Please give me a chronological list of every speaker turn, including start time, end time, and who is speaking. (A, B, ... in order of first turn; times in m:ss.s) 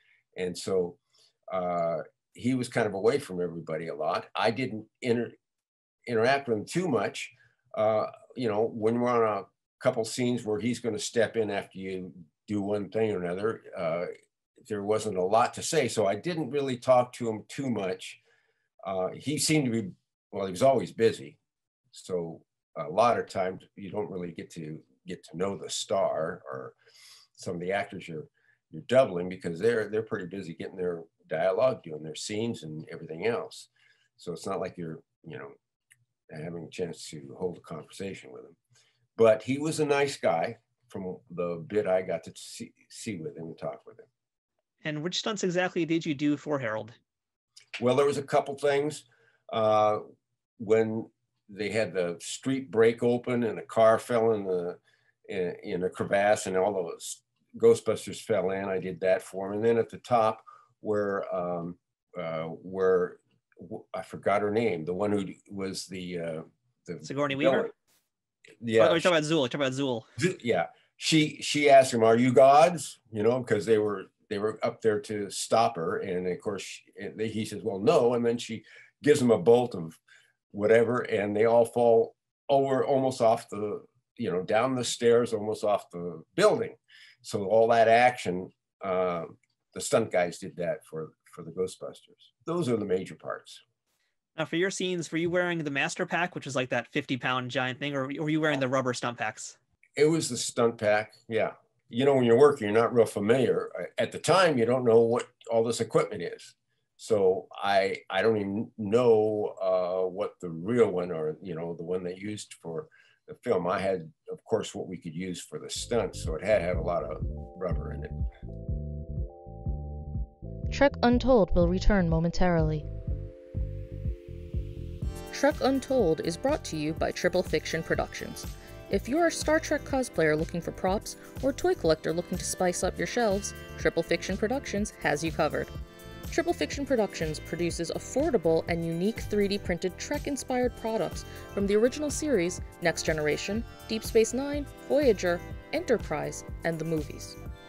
0:00.4-0:01.0 A
0:01.5-0:05.4 A
0:06.1-0:14.1 A
0:14.7-0:18.2 A
0:18.9-0:21.4 A
0:21.9-0:26.7 A
0:27.4-0:35.5 A
0:36.3-0:38.6 A
0:39.2-0:44.1 A
0:44.8-0:47.0 B
0:47.8-0:50.0 A
0:50.6-1:07.7 A
1:07.0-1:07.7 B
1:08.6-1:09.1 A
1:08.8-1:10.1 B
1:10.2-1:20.0 A
1:20.5-1:33.6 A
1:34.4-1:39.6 B
1:40.0-1:58.2 A
2:00.7-2:02.9 C
2:05.3-2:15.7 C
2:16.3-2:27.4 C